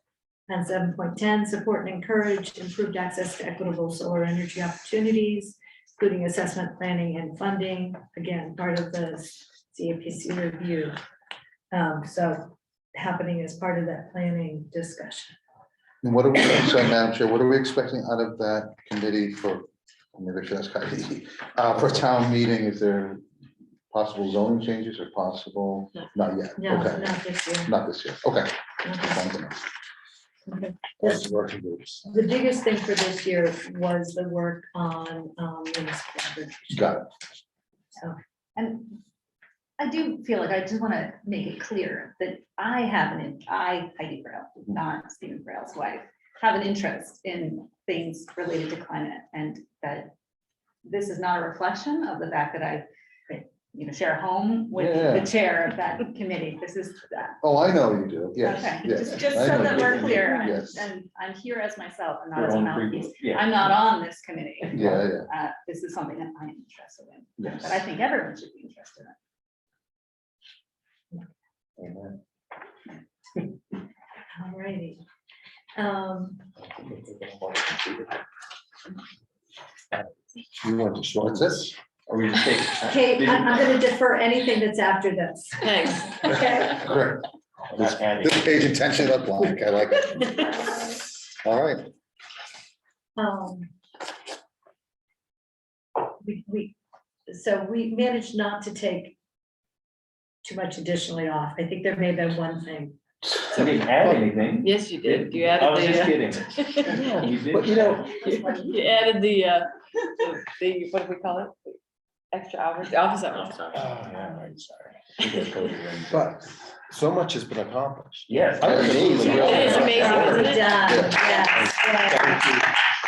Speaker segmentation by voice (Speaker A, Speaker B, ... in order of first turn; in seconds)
Speaker A: 0.5-11.0, 11.7-15.3, 26.6-27.7, 28.9-29.2, 30.5-31.3, 32.1-37.0, 74.3-75.0, 75.8-76.5, 82.8-86.9, 93.2-93.7, 96.2-96.8, 97.3-99.2, 100.4-103.0, 108.3-108.7, 119.4-122.5
Speaker B: 16.0-23.2, 23.9-29.6, 31.0-32.0, 36.7-37.1, 54.7-55.3, 57.4-60.9, 64.7-65.3, 67.4-67.8, 80.6-81.7, 86.7-90.4, 91.4-91.9, 118.6-121.2
Speaker C: 38.6-39.0, 39.8-50.1, 50.8-57.4, 58.4-69.2
Speaker D: 59.5-60.4, 62.3-63.7, 71.8-72.2, 77.1-77.9, 82.1-83.7, 87.7-88.7, 103.5-108.2, 113.6-116.3, 118.3-122.7
Speaker E: 85.6-86.5, 103.5-103.9, 104.6-107.3, 108.2-111.8, 112.3-113.9, 119.2-121.9
Speaker F: 107.6-108.0, 113.8-114.2, 116.1-116.4, 116.9-120.5